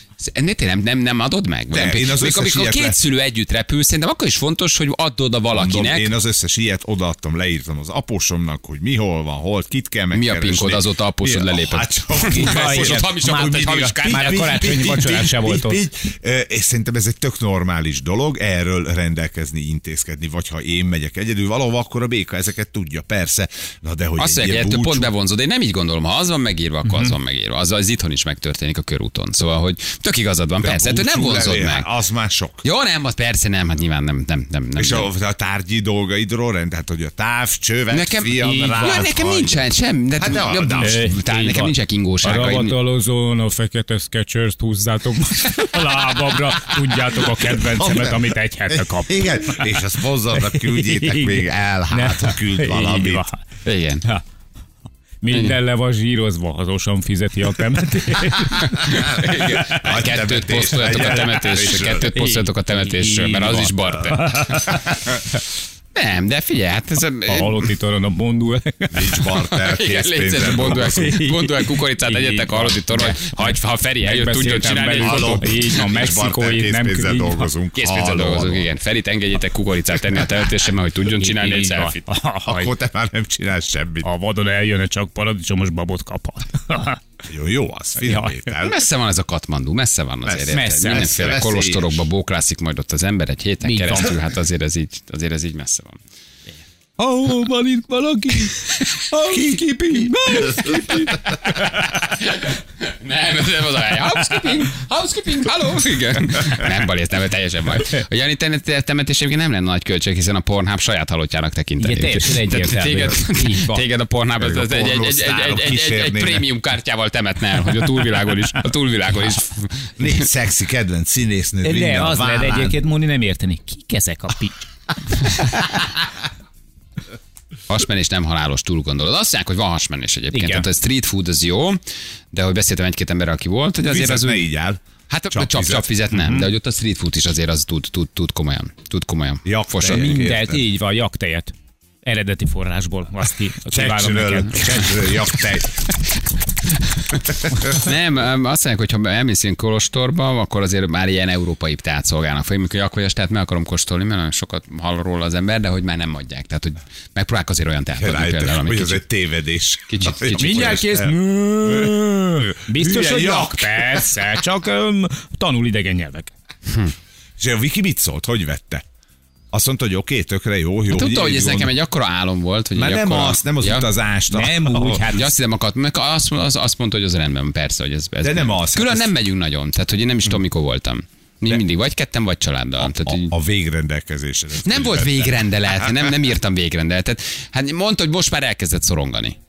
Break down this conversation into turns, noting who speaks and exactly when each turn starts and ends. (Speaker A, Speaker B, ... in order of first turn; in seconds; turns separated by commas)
Speaker A: 0.2-6.1, Speaker B: 1.7-3.0, Speaker B: 5.5-25.1, Speaker A: 10.1-14.5, Speaker C: 12.3-15.8, Speaker A: 24.2-31.9, Speaker C: 26.9-27.2, Speaker B: 30.6-32.6, Speaker A: 32.6-35.1, Speaker B: 34.8-41.0, Speaker A: 37.9-42.8, Speaker C: 38.4-39.0, Speaker C: 40.8-49.8, Speaker B: 47.4-53.2, Speaker C: 50.4-53.4, Speaker A: 53.6-54.0, Speaker C: 55.2-59.3, Speaker A: 55.3-55.6, Speaker A: 58.6-64.7, Speaker B: 59.6-62.1, Speaker C: 62.1-65.0, Speaker A: 66.0-67.6, Speaker C: 67.3-69.2, Speaker B: 68.9-71.2, Speaker A: 69.5-75.8, Speaker C: 70.8-77.5, Speaker B: 75.0-78.7, Speaker A: 77.7-82.0, Speaker C: 81.2-82.7, Speaker B: 82.4-84.1, Speaker C: 84.0-87.0, Speaker B: 87.3-88.8, Speaker C: 88.0-88.5, Speaker A: 88.6-96.0, Speaker B: 90.2-92.0, Speaker C: 90.5-91.3, Speaker C: 93.6-94.2, Speaker C: 97.0-101.5, Speaker B: 99.3-101.0, Speaker A: 100.7-101.1, Speaker A: 102.0-120.2, Speaker C: 111.8-113.8, Speaker B: 114.4-116.5, Speaker B: 120.0-122.8, Speaker C: 121.6-124.7, Speaker C: 125.2-125.7, Speaker A: 127.7-131.8, Speaker C: 130.3-130.7, Speaker A: 132.3-134.5, Speaker B: 133.8-134.8, Speaker A: 135.1-140.2, Speaker B: 135.3-135.9, Speaker C: 136.2-136.5, Speaker B: 139.4-140.7, Speaker C: 139.8-141.5, Speaker C: 142.0-145.1, Speaker B: 143.7-145.8, Speaker A: 147.0-159.0, Speaker B: 158.0-162.0, Speaker A: 159.9-160.9, Speaker C: 160.3-166.3, Speaker B: 162.7-164.1, Speaker A: 166.7-166.9, Speaker B: 167.4-168.8, Speaker B: 169.5-171.7, Speaker A: 170.9-173.9, Speaker B: 172.8-175.1, Speaker C: 174.3-175.3, Speaker A: 175.0-183.3, Speaker B: 178.2-179.1, Speaker B: 182.8-186.1, Speaker A: 184.7-189.4